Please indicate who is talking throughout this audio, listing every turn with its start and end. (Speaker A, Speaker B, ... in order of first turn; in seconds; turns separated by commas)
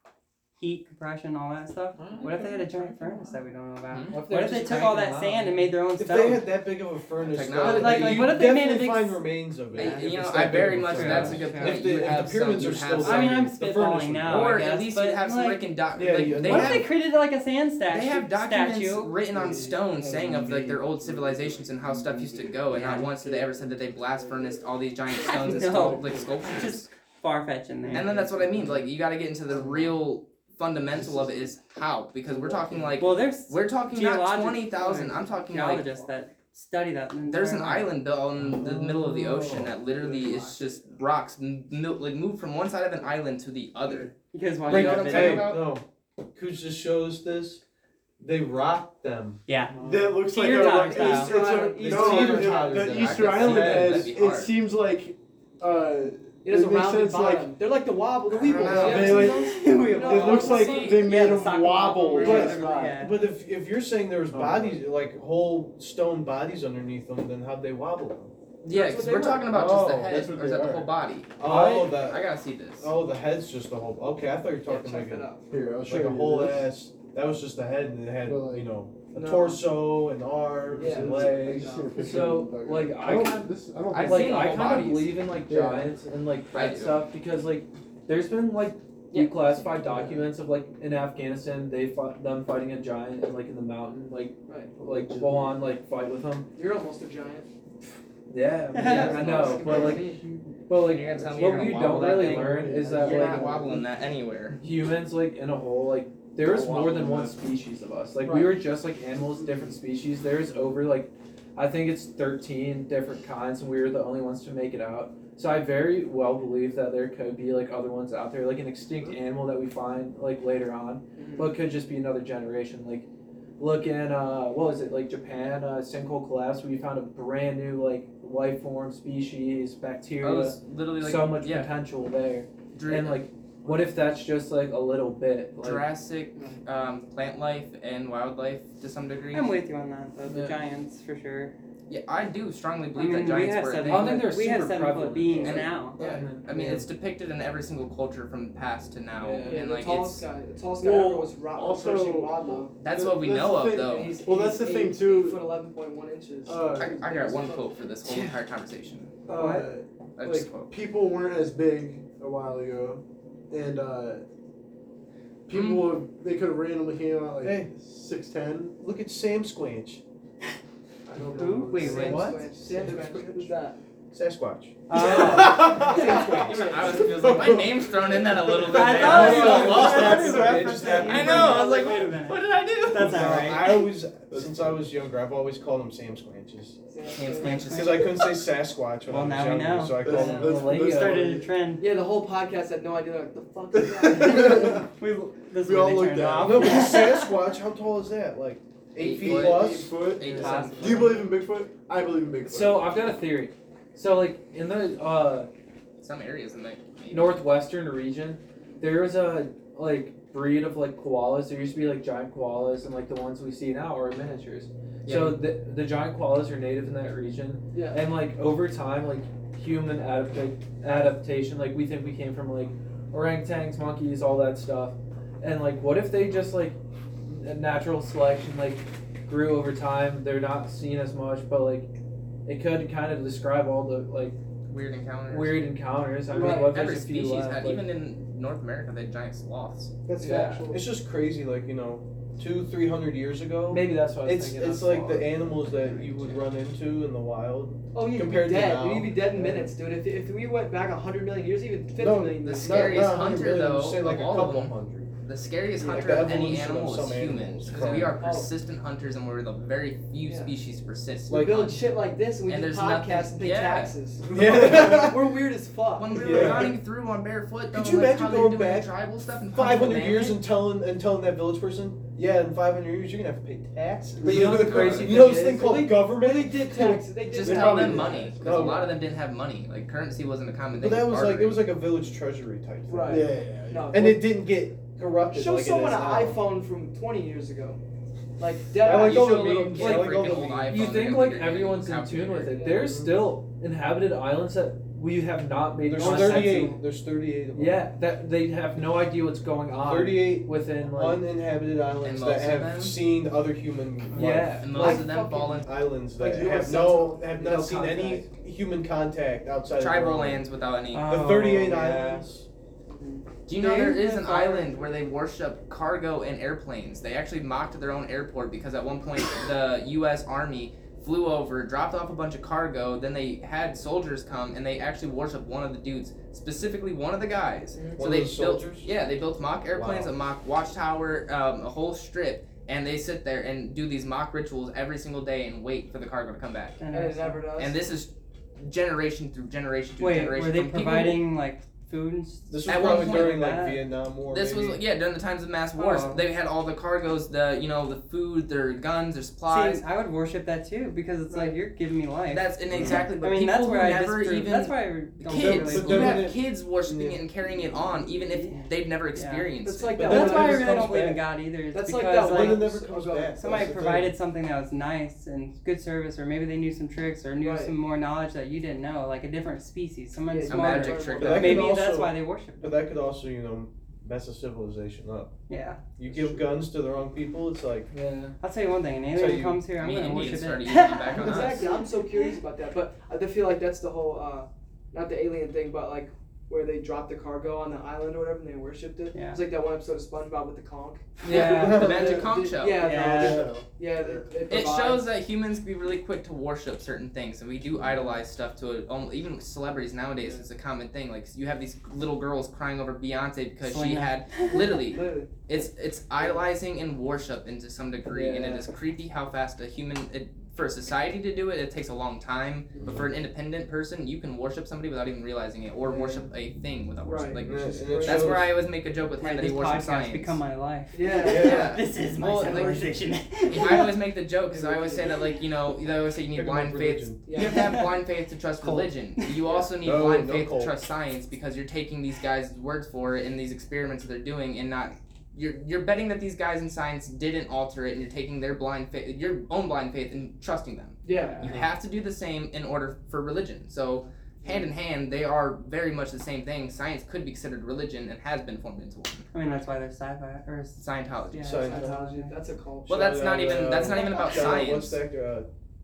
Speaker A: 0.6-6.5, Speaker B: 2.0-3.4, Speaker C: 3.9-4.2, Speaker B: 4.1-5.8, Speaker D: 5.9-14.7, Speaker C: 7.2-8.4, Speaker A: 7.6-10.2, Speaker C: 9.7-13.4, Speaker A: 10.9-11.8, Speaker A: 13.0-15.7, Speaker C: 14.2-16.9, Speaker D: 15.9-16.9, Speaker A: 16.3-19.1, Speaker C: 17.9-26.9, Speaker E: 19.3-24.6, Speaker A: 22.7-23.1, Speaker A: 25.2-28.1, Speaker E: 25.3-26.6, Speaker C: 27.9-35.9, Speaker E: 28.0-28.9, Speaker E: 30.9-31.5, Speaker E: 32.3-33.0, Speaker A: 33.0-37.9, Speaker C: 37.3-44.1, Speaker E: 38.6-40.7, Speaker A: 44.3-45.5, Speaker C: 44.6-45.7, Speaker D: 44.7-45.8, Speaker D: 46.3-47.6, Speaker D: 48.2-49.4, Speaker A: 49.5-51.3, Speaker E: 49.8-57.5, Speaker F: 50.6-53.0, Speaker D: 51.2-54.1, Speaker C: 52.1-54.6, Speaker F: 56.4-61.0, Speaker C: 58.4-59.5, Speaker E: 58.4-63.0, Speaker A: 58.6-63.2, Speaker C: 60.4-61.1, Speaker F: 62.2-62.6, Speaker D: 62.2-68.3, Speaker E: 64.3-64.8, Speaker C: 68.6-72.9, Speaker F: 68.7-69.5, Speaker D: 69.5-70.3, Speaker E: 70.0-70.9, Speaker D: 71.4-81.7, Speaker B: 71.5-71.9, Speaker F: 74.7-75.5, Speaker E: 75.5-76.7, Speaker E: 78.2-78.7, Speaker F: 79.1-79.7, Speaker E: 80.7-84.8, Speaker F: 80.8-82.1, Speaker B: 81.9-96.5, Speaker C: 83.9-85.2, Speaker E: 85.4-86.0, Speaker C: 86.5-87.0, Speaker F: 94.5-94.8, Speaker E: 94.8-95.6, Speaker F: 96.5-97.5, Speaker B: 98.3-103.8, Speaker A: 98.7-99.6, Speaker C: 98.8-100.0, Speaker F: 98.9-100.2, Speaker C: 100.7-104.6, Speaker E: 101.9-103.7, Speaker B: 104.6-123.1, Speaker E: 106.4-107.3, Speaker F: 108.2-108.6, Speaker F: 121.2-121.6, Speaker B: 123.6-135.9, Speaker C: 130.2-131.7, Speaker C: 132.7-133.2, Speaker C: 135.6-139.5, Speaker A: 139.3-141.5, Speaker B: 140.3-140.6, Speaker C: 141.9-144.3, Speaker A: 142.9-146.0, Speaker B: 143.8-146.8, Speaker C: 145.4-150.2, Speaker F: 146.0-146.3, Speaker B: 149.2-149.6, Speaker F: 149.4-152.7, Speaker E: 150.8-155.5, Speaker C: 152.8-154.2, Speaker F: 153.8-157.7, Speaker E: 156.4-157.2, Speaker C: 156.8-159.2, Speaker A: 158.1-158.3, Speaker E: 159.3-164.2, Speaker A: 159.3-159.7, Speaker C: 160.2-160.7, Speaker E: 165.5-168.7, Speaker C: 165.5-166.0, Speaker D: 167.4-167.7, Speaker D: 168.8-170.0, Speaker E: 171.1-173.5, Speaker A: 171.3-172.4, Speaker F: 171.8-173.8, Speaker B: 171.9-172.5, Speaker D: 174.1-176.5, Speaker A: 174.9-176.4, Speaker F: 175.0-177.6, Speaker C: 175.7-183.7, Speaker E: 177.1-180.6, Speaker A: 178.7-183.9, Speaker D: 178.7-181.7, Speaker F: 178.9-179.6, Speaker D: 182.9-186.8, Speaker E: 184.3-184.8, Speaker F: 186.9-187.7, Speaker C: 187.1-188.2, Speaker A: 187.4-187.9, Speaker D: 187.6-190.7, Speaker A: 189.1-191.8, Speaker E: 190.0-191.5, Speaker B: 190.2-191.2, Speaker F: 191.8-194.8, Speaker E: 193.7-194.9, Speaker A: 194.1-197.3, Speaker E: 195.6-197.1, Speaker D: 196.4-200.1, Speaker C: 199.0-201.2, Speaker E: 199.2-203.0, Speaker A: 200.3-201.2, Speaker B: 202.4-205.5, Speaker C: 206.0-207.4, Speaker B: 207.1-231.9, Speaker C: 215.0-215.5, Speaker F: 217.7-218.1, Speaker B: 232.4-234.4, Speaker C: 234.7-235.7, Speaker B: 235.3-237.8, Speaker F: 236.3-236.8, Speaker C: 236.3-239.9, Speaker F: 240.1-240.8, Speaker B: 240.2-240.7, Speaker D: 240.7-249.7, Speaker B: 243.7-245.7, Speaker C: 246.0-246.4, Speaker F: 247.9-253.2, Speaker D: 251.9-255.1, Speaker C: 252.4-261.8, Speaker F: 255.8-256.1, Speaker D: 255.9-258.2, Speaker F: 257.9-258.5, Speaker F: 260.2-260.5, Speaker D: 261.3-261.7, Speaker F: 261.3-266.7, Speaker C: 262.4-263.9, Speaker D: 264.2-265.4, Speaker C: 265.9-270.4, Speaker D: 266.1-266.8, Speaker D: 267.7-268.9, Speaker D: 269.5-277.0, Speaker E: 274.2-275.0, Speaker B: 274.2-275.7, Speaker C: 274.3-275.2, Speaker F: 275.4-278.3, Speaker C: 277.2-281.7, Speaker E: 277.3-278.9, Speaker D: 278.0-278.9, Speaker D: 280.7-283.3, Speaker F: 282.9-284.2, Speaker E: 283.1-284.1, Speaker D: 283.9-286.4, Speaker F: 285.3-287.8, Speaker F: 288.4-289.7, Speaker D: 288.8-291.1, Speaker C: 288.9-292.5, Speaker B: 289.7-296.8, Speaker F: 292.5-293.0, Speaker D: 292.7-293.3, Speaker D: 295.8-297.9, Speaker A: 296.0-296.7, Speaker B: 297.5-301.2, Speaker D: 299.8-305.0, Speaker C: 302.0-303.0, Speaker B: 304.1-305.1, Speaker C: 304.6-305.7, Speaker F: 304.7-305.6, Speaker D: 305.5-310.4, Speaker B: 306.2-308.3, Speaker E: 306.3-306.9, Speaker C: 309.8-311.2, Speaker A: 310.9-312.0, Speaker D: 311.0-312.4, Speaker F: 312.9-313.3, Speaker C: 313.5-336.8, Speaker A: 313.5-314.9, Speaker F: 327.7-328.0, Speaker D: 328.0-328.9, Speaker D: 329.7-330.1, Speaker A: 336.8-337.4, Speaker F: 336.9-337.8, Speaker C: 337.6-341.2, Speaker A: 340.0-343.8, Speaker D: 342.5-344.8, Speaker C: 342.6-343.4, Speaker C: 344.3-349.8, Speaker A: 345.8-346.2, Speaker A: 349.5-356.2, Speaker F: 351.3-351.6, Speaker C: 352.3-360.1, Speaker D: 352.7-353.1, Speaker D: 355.3-357.2, Speaker A: 358.3-359.5, Speaker F: 359.6-360.9, Speaker D: 359.9-361.2, Speaker A: 360.0-362.7, Speaker F: 361.7-363.4, Speaker D: 362.2-364.1, Speaker A: 363.4-372.8, Speaker F: 367.4-367.7, Speaker F: 370.3-371.6, Speaker C: 370.5-371.8, Speaker D: 371.2-375.3, Speaker A: 375.5-375.8, Speaker D: 376.0-377.9, Speaker B: 377.9-378.3, Speaker A: 378.4-382.4, Speaker D: 379.1-379.6, Speaker C: 379.8-381.6, Speaker F: 381.2-395.0, Speaker A: 389.1-389.4, Speaker B: 391.2-391.9, Speaker C: 391.3-393.0, Speaker D: 391.6-392.3, Speaker A: 392.7-393.5, Speaker E: 392.9-394.3, Speaker C: 394.5-420.4, Speaker A: 403.6-404.8, Speaker F: 404.5-405.3, Speaker F: 406.2-406.4, Speaker B: 408.1-408.7, Speaker F: 412.7-413.0, Speaker D: 412.8-413.1, Speaker F: 415.8-416.3, Speaker F: 417.0-418.4, Speaker D: 417.4-418.6, Speaker A: 419.2-423.9, Speaker F: 420.9-421.7, Speaker D: 421.2-421.8, Speaker C: 421.2-422.9, Speaker C: 423.5-449.3, Speaker F: 424.5-425.2, Speaker D: 426.3-427.2, Speaker F: 427.2-427.7, Speaker A: 427.4-428.0, Speaker B: 428.6-428.9, Speaker F: 429.4-429.7, Speaker D: 429.8-430.7, Speaker F: 441.0-441.5, Speaker D: 441.4-441.7, Speaker F: 444.4-444.7, Speaker A: 449.3-452.3, Speaker C: 450.8-451.6, Speaker D: 451.4-451.9, Speaker F: 451.4-452.9, Speaker C: 452.9-455.0, Speaker D: 452.9-455.5, Speaker A: 453.8-454.6